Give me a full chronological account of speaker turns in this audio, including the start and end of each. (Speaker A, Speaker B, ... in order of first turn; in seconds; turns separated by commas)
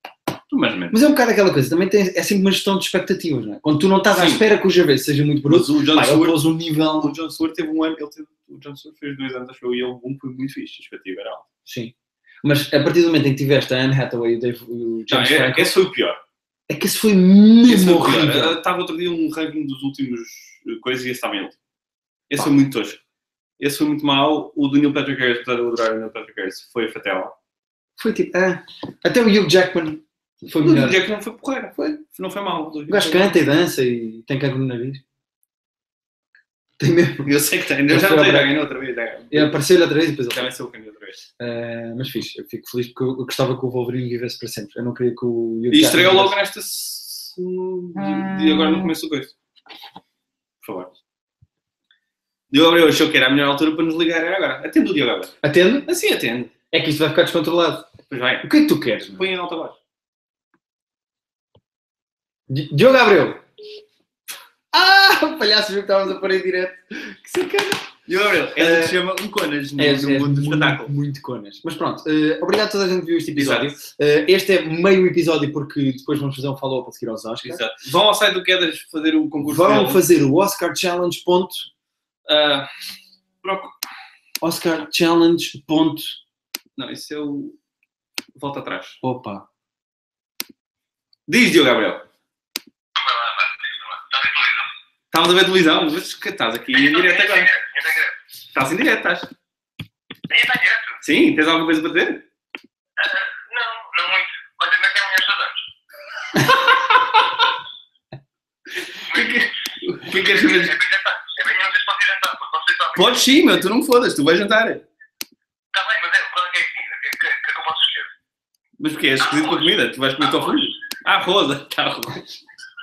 Speaker A: 0.5-1.0, Speaker B: 0.9-7.1, Speaker A: 4.1-4.4, Speaker A: 5.4-11.4, Speaker B: 11.7-15.7, Speaker A: 15.1-16.2, Speaker B: 16.7-18.6, Speaker A: 17.6-21.6, Speaker A: 22.3-23.0, Speaker A: 23.6-27.3, Speaker B: 28.0-31.0, Speaker A: 30.6-33.4, Speaker B: 32.9-35.0, Speaker B: 36.8-37.3, Speaker A: 37.2-39.5, Speaker B: 37.9-38.5, Speaker B: 39.3-40.5, Speaker A: 40.3-41.2, Speaker B: 41.4-46.4, Speaker A: 45.7-49.3, Speaker A: 50.6-50.9, Speaker A: 52.5-55.3, Speaker B: 55.4-55.9, Speaker A: 55.9-56.5, Speaker B: 56.7-57.9, Speaker A: 58.1-58.5, Speaker B: 58.4-59.3, Speaker A: 59.2-59.8, Speaker B: 62.5-63.4, Speaker B: 64.7-67.9, Speaker A: 68.1-70.9, Speaker B: 68.5-69.0, Speaker B: 69.8-77.6, Speaker A: 73.3-73.8, Speaker A: 77.4-80.0, Speaker B: 79.4-81.7, Speaker A: 82.2-82.7, Speaker A: 83.4-83.7, Speaker B: 84.4-86.2, Speaker A: 86.8-87.5, Speaker A: 88.3-89.0, Speaker B: 89.0-89.5, Speaker A: 91.3-92.1, Speaker C: 93.0-94.7, Speaker A: 95.1-97.5, Speaker C: 96.7-98.2, Speaker A: 98.5-99.3, Speaker C: 100.3-101.0, Speaker A: 101.0-102.2, Speaker C: 103.0-105.6, Speaker A: 106.4-107.2, Speaker C: 109.1-113.3, Speaker A: 109.1-110.8, Speaker A: 113.0-114.8, Speaker C: 115.7-118.1, Speaker A: 118.8-122.4, Speaker C: 119.2-120.7